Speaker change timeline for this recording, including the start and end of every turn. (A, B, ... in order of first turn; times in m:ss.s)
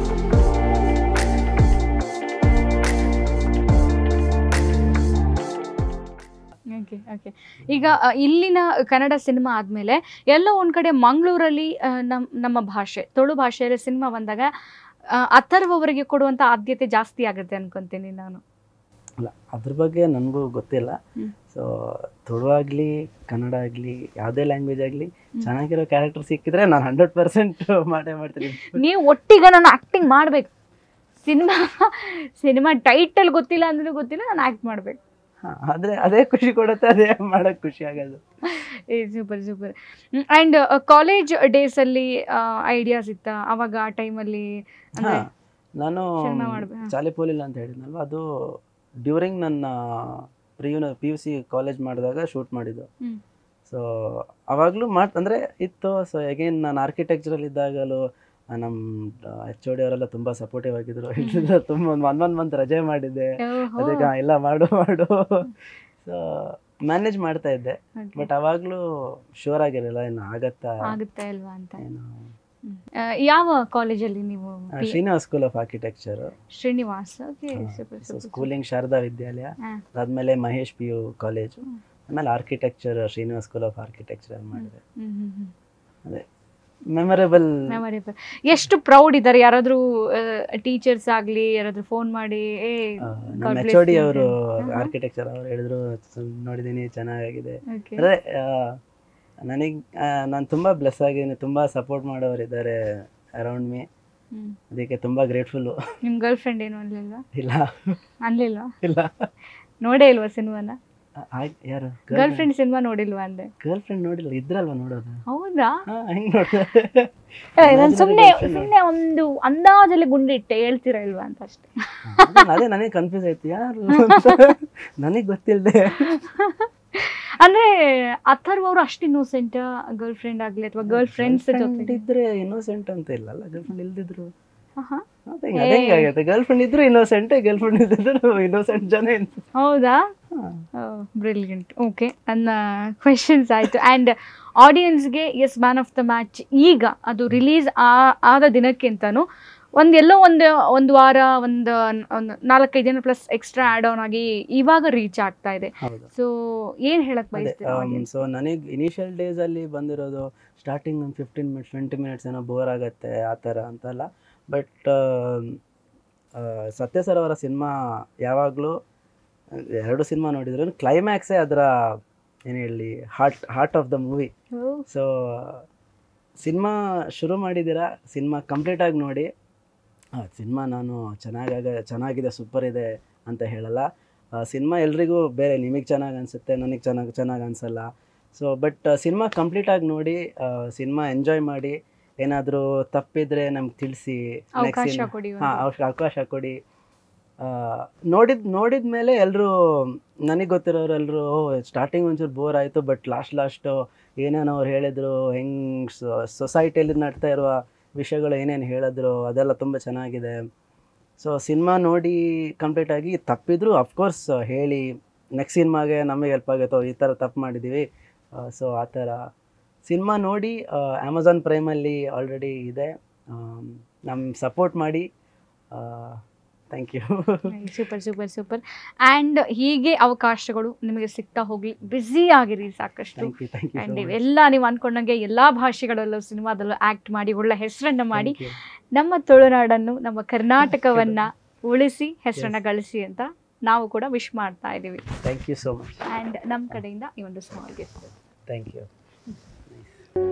0:06.7-0:14.5 A
0:15.2-0:18.4 A
0:19.2-0:21.0 B
0:21.5-0:28.8 B
0:28.5-0:30.5 A
0:31.2-0:35.0 A
0:35.4-0:38.2 B
0:38.5-0:45.2 A
0:45.0-0:45.2 B
0:45.8-0:52.9 B
0:46.2-0:46.9 A
0:53.7-0:58.0 B
0:58.5-1:05.5 B
1:01.2-1:01.5 A
1:03.4-1:04.1 A
1:06.0-1:08.8 B
1:08.0-1:08.3 A
1:09.4-1:10.7 B
1:10.9-1:11.8 A
1:11.8-1:12.3 B
1:12.6-1:15.0 A
1:14.7-1:16.3 B
1:16.5-1:18.5 A
1:17.5-1:24.8 B
1:24.6-1:25.5 A
1:26.9-1:27.5 B
1:27.7-1:34.9 A
1:33.0-1:38.8 B
1:37.7-1:38.1 A
1:39.4-1:43.9 B
1:44.7-1:45.8 B
1:46.0-1:47.2 A
1:47.3-1:48.0 B
1:48.2-1:48.7 A
1:48.8-1:49.3 B
1:49.8-1:50.8 A
1:51.2-1:52.5 B
1:52.1-1:53.5 A
1:53.6-1:55.2 B
1:55.3-1:55.8 A
1:55.9-1:58.7 B
1:57.6-2:02.5 A
2:02.0-2:06.1 B
2:04.0-2:04.5 A
2:06.0-2:07.7 A
2:08.3-2:12.0 A
2:10.8-2:14.3 B
2:14.8-2:15.0 A
2:15.3-2:19.4 B
2:15.6-2:16.1 A
2:19.6-2:20.0 A
2:20.3-2:20.6 B
2:20.8-2:29.2 A
2:29.8-2:38.1 A
2:35.8-2:36.1 B
2:37.3-2:45.6 B
2:46.4-2:48.8 B
2:49.5-2:51.7 B
2:52.5-2:54.3 B
2:54.5-2:54.8 A
2:54.9-2:55.6 B
2:56.4-2:59.3 B
3:00.2-3:03.9 B
3:04.4-3:16.6 B
3:14.6-3:15.6 A
3:17.4-3:30.4 B
3:31.2-3:39.2 B
3:39.8-3:45.1 B
3:45.7-3:47.5 B
3:47.5-3:58.4 A
3:53.2-3:54.2 B
3:58.1-3:58.6 B
3:58.9-4:05.1 A
4:00.7-4:01.2 B
4:05.2-4:06.1 B
4:06.1-4:08.1 A
4:08.5-4:08.9 B
4:09.7-4:10.0 B